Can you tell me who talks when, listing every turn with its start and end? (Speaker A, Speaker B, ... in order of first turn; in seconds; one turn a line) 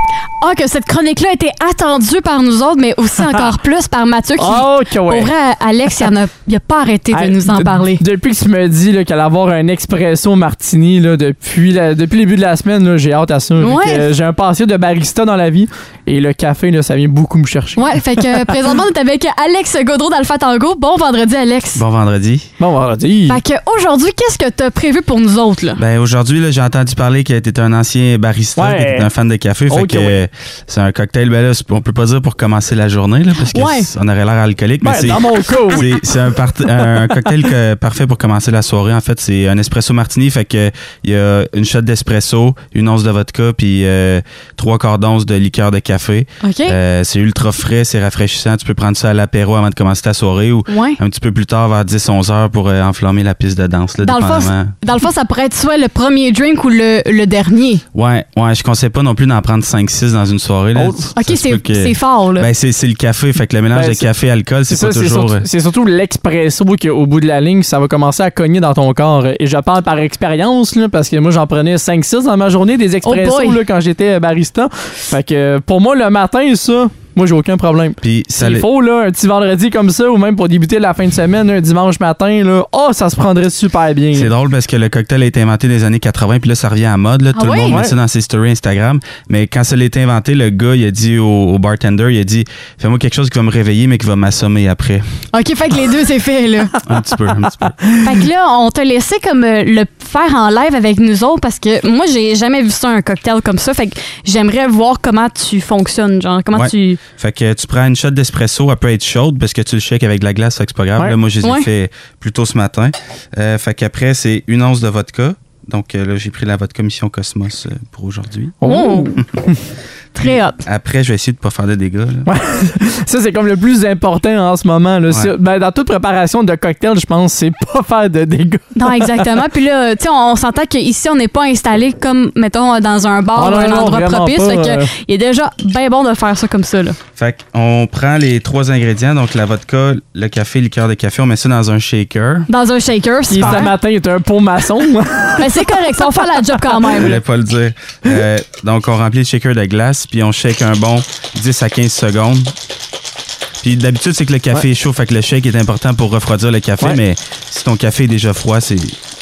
Speaker A: 0.4-8.0
Speaker B: 4.4-5.3
Speaker B: 7.1-18.5
Speaker A: 13.6-14.1
Speaker A: 17.8-21.8
Speaker C: 21.7-22.5
Speaker B: 22.6-23.4
Speaker A: 23.3-25.8
Speaker C: 25.8-54.7
Speaker B: 28.6-29.1
Speaker B: 29.7-30.2
Speaker A: 33.5-33.9
Speaker B: 34.8-36.0
Speaker B: 36.7-37.0
Speaker A: 46.4-46.8
Speaker A: 50.7-51.0
Speaker A: 54.0-57.8
Speaker C: 57.9-65.4
Speaker B: 60.7-61.1
Speaker A: 61.1-62.5
Speaker B: 63.7-64.1
Speaker B: 64.7-84.3
Speaker A: 73.0-73.6
Speaker C: 78.0-78.7
Speaker C: 84.1-95.0
Speaker A: 87.3-87.8
Speaker B: 87.7-87.9
Speaker A: 95.3-96.8
Speaker C: 96.9-97.7
Speaker A: 98.0-107.0
Speaker C: 106.5-118.6
Speaker A: 111.4-111.7
Speaker B: 118.6-119.6
Speaker A: 118.6-119.2
Speaker A: 120.1-120.6
Speaker C: 120.6-122.3
Speaker B: 122.2-129.2
Speaker A: 128.8-137.0
Speaker B: 133.4-134.9
Speaker C: 137.2-142.5
Speaker A: 142.5-143.7
Speaker B: 143.3-147.0
Speaker A: 145.4-147.2
Speaker C: 147.0-152.5
Speaker C: 153.6-159.0